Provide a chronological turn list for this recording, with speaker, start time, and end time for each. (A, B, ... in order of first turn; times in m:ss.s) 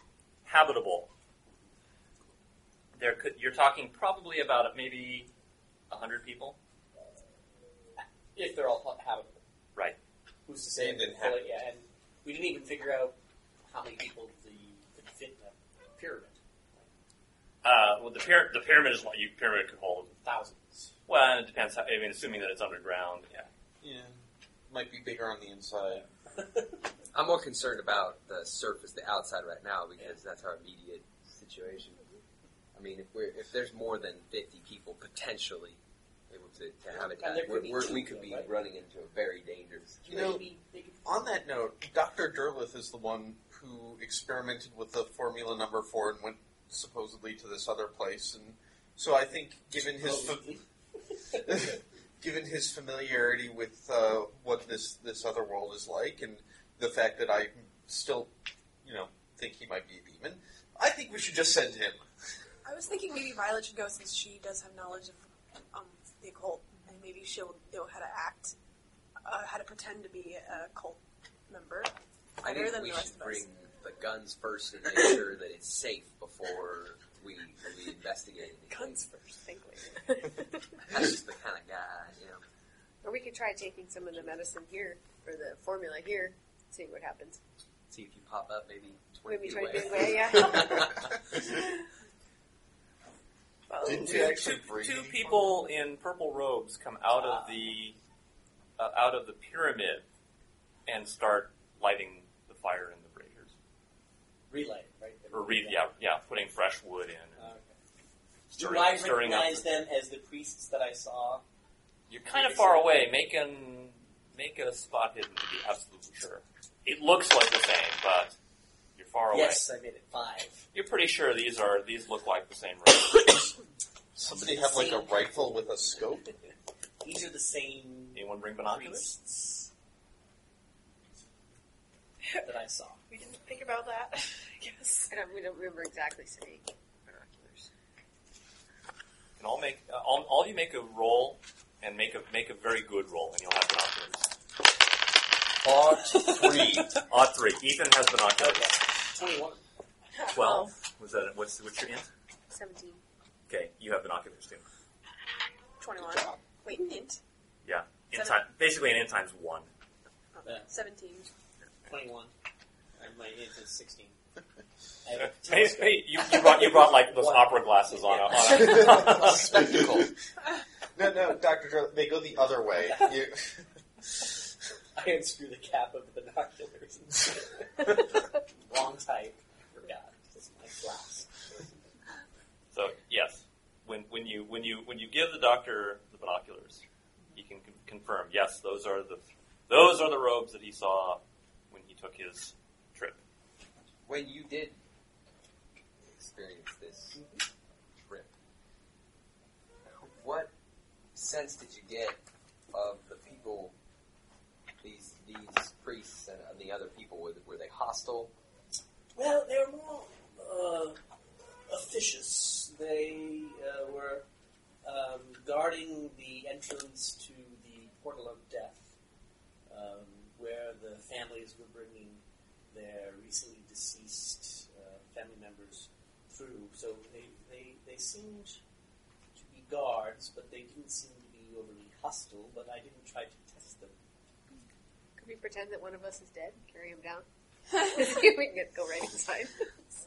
0:00.4-0:01.1 A
0:03.0-0:05.3 A
0:05.9-0:06.6 A
0:08.0-0:09.4 B
0:10.5-0:13.2 B
0:10.8-0:11.4 C
0:13.7-0:16.4 B
0:17.6-0:20.1 A
0:20.2-0:20.9 B
0:21.1-0:23.5 A
0:23.8-0:24.2 C
0:24.7-0:26.1 C
0:26.4-0:26.7 B
0:27.1-0:32.1 D
0:32.8-0:40.0 D
0:36.9-0:38.5 B
0:40.0-0:41.1 B
0:40.1-0:40.4 C
0:41.0-0:50.5 C
0:49.8-0:51.8 B
0:51.4-0:58.3 C
0:58.8-1:02.1 C
1:02.6-1:08.6 E
1:09.2-1:13.5 E
1:12.4-1:19.1 D
1:18.7-1:20.3 E
1:20.8-1:22.4 D
1:23.0-1:27.4 F
1:27.9-1:31.4 D
1:29.3-1:31.1 F
1:33.7-1:34.4 E
1:33.8-1:35.5 C
1:33.9-1:38.0 A
1:37.1-1:37.6 B
1:38.8-1:40.0 A
1:40.9-1:43.5 A
1:44.5-1:45.8 B
1:45.3-1:47.5 A
1:47.4-1:47.7 B
1:48.5-1:49.7 A
1:48.5-1:51.4 B
1:52.1-1:58.4 A
1:52.3-1:53.0 B
1:59.0-1:59.6 A
1:59.3-2:00.7 B
2:00.7-2:03.5 A
2:04.2-2:06.2 C
2:04.2-2:06.1 B
2:07.0-2:09.7 B
2:08.1-2:09.1 A
2:12.4-2:13.0 B
2:13.1-2:15.1 E
2:15.1-2:17.7 F
2:19.4-2:24.3 A
2:25.6-2:26.9 C
2:27.0-2:28.7 A
2:28.4-2:29.6 B
2:30.3-2:32.1 A
2:32.5-2:33.0 F
2:33.5-2:34.6 A
2:35.8-2:37.2 E
2:37.6-2:39.7 A
2:38.1-2:38.4 E
2:40.4-2:41.3 E
2:40.4-2:40.7 B
2:41.8-2:42.3 B
2:43.0-2:44.2 B
2:45.0-2:48.3 B
2:45.2-2:49.6 A
2:48.6-2:50.2 C
2:48.6-2:50.1 D
2:51.0-2:53.7 C
2:52.8-2:53.2 B
2:55.0-3:01.7 B
3:02.7-3:06.8 A
3:07.4-3:13.2 A
3:14.1-3:14.8 D
3:16.0-3:17.2 D
3:18.0-3:18.3 D
3:20.0-3:20.5 D
3:21.2-3:22.2 D
3:22.7-3:23.8 D
3:24.8-3:28.3 D
3:29.2-3:31.0 B
3:31.7-3:34.2 B
3:34.8-3:38.9 B
3:39.7-3:48.6 B
3:49.4-3:54.0 B
3:55.2-3:59.6 F